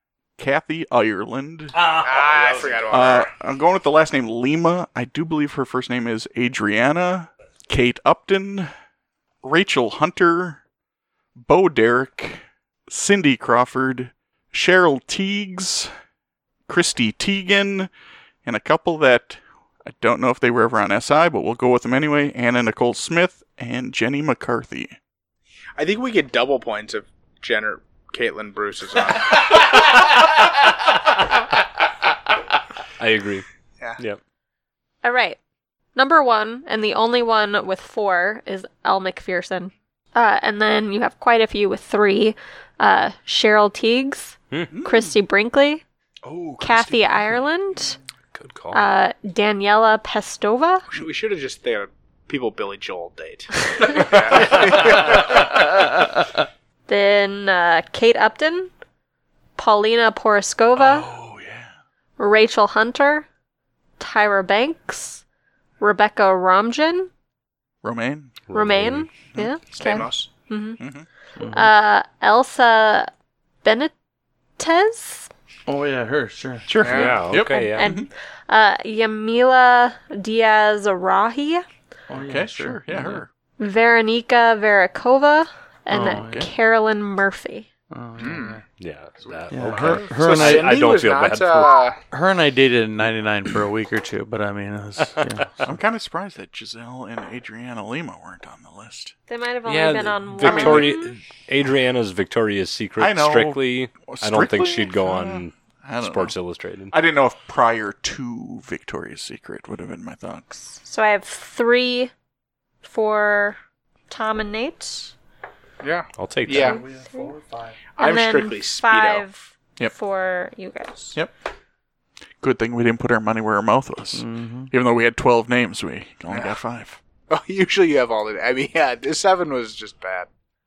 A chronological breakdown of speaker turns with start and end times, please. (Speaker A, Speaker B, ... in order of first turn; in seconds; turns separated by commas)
Speaker A: 0.4-1.8, Speaker B: 1.8-2.8, Speaker C: 1.9-3.3, Speaker A: 2.9-8.7, Speaker A: 9.4-10.6, Speaker A: 11.4-15.9, Speaker A: 16.7-17.9, Speaker A: 18.4-24.9, Speaker C: 25.8-29.7, Speaker B: 33.0-33.5, Speaker D: 35.0-35.4, Speaker D: 36.0-45.8, Speaker A: 44.7-45.1, Speaker A: 46.2-47.4, Speaker D: 46.6-48.0, Speaker B: 48.3-48.9, Speaker D: 48.7-50.9, Speaker C: 50.9-55.6, Speaker B: 54.2-55.0, Speaker D: 56.9-58.7, Speaker D: 59.6-61.1, Speaker A: 60.8-61.7, Speaker D: 62.2-63.3, Speaker D: 64.0-65.2, Speaker D: 65.8-67.1, Speaker A: 67.8-68.4, Speaker B: 68.5-69.2, Speaker D: 68.5-70.8, Speaker C: 69.7-70.3, Speaker A: 70.8-71.1, Speaker E: 71.4-71.7, Speaker D: 71.5-73.1, Speaker D: 73.6-73.9, Speaker D: 74.6-75.3, Speaker E: 75.7-76.7, Speaker A: 76.7-78.1, Speaker C: 76.8-77.2, Speaker B: 76.8-77.9, Speaker D: 77.3-81.7, Speaker A: 82.1-83.3, Speaker E: 82.1-83.2, Speaker D: 83.6-87.7, Speaker A: 85.9-86.5, Speaker E: 85.9-86.4, Speaker E: 87.9-88.6, Speaker C: 88.2-88.6, Speaker B: 88.8-91.8, Speaker E: 89.5-90.7, Speaker C: 89.8-92.0, Speaker E: 92.1-95.8, Speaker A: 95.6-99.1, Speaker D: 99.3-101.1, Speaker B: 99.7-106.9, Speaker A: 100.4-101.1, Speaker A: 103.0-106.4, Speaker A: 106.9-110.5, Speaker D: 110.8-112.1, Speaker D: 112.8-113.6, Speaker D: 114.1-115.1, Speaker C: 115.8-116.8, Speaker B: 116.2-116.8, Speaker D: 116.5-117.3, Speaker E: 116.6-117.8, Speaker C: 118.0-119.2, Speaker D: 118.0-121.2, Speaker A: 122.4-127.0, Speaker E: 124.2-124.7, Speaker C: 127.3-130.3